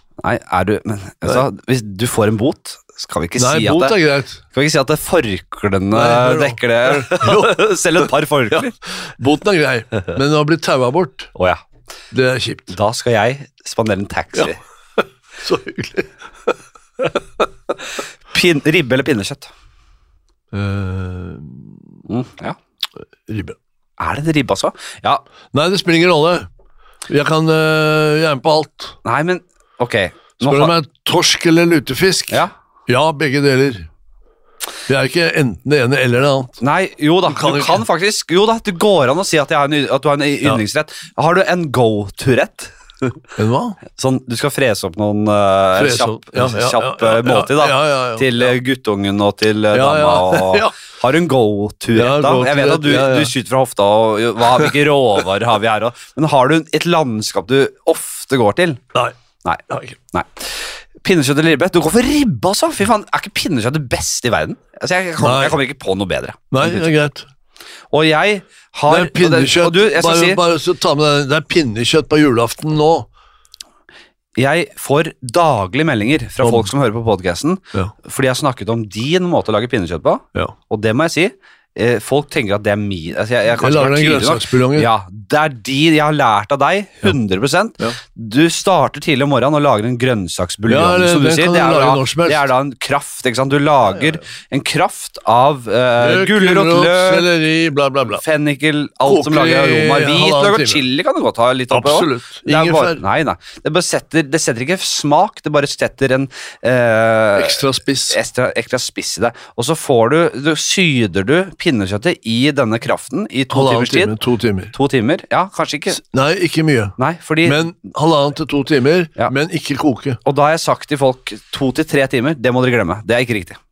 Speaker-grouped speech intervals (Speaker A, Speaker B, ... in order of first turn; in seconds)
Speaker A: 0.2-4.0, 4.5-8.7, 11.3-11.6, 12.7-14.6, 18.3-19.5, 22.1-22.6, 24.0-25.2, 29.1-30.7, 36.6-43.2, 44.0-58.8, 60.1-66.9, 67.9-70.4, 74.4-97.3, 98.2-114.2, 114.7-116.0, 117.0-117.6, 120.2-123.6
Speaker B: 3.4-4.4, 5.9-7.6, 8.5-11.3, 12.1-12.7, 15.4-16.6, 20.5-21.8, 23.3-23.6, 25.5-26.5, 27.1-29.0, 30.4-33.9, 34.9-36.6, 37.3-37.8, 43.4-43.8, 45.8-48.5, 49.7-50.8, 51.9-53.3, 59.7-60.0, 65.2-65.6, 66.5-67.3, 68.9-73.1, 76.4-76.7, 83.6-84.9, 90.7-92.5, 96.0-98.2, 99.0-100.8, 101.7-103.0, 107.4-108.2, 113.5-114.7, 116.0-120.2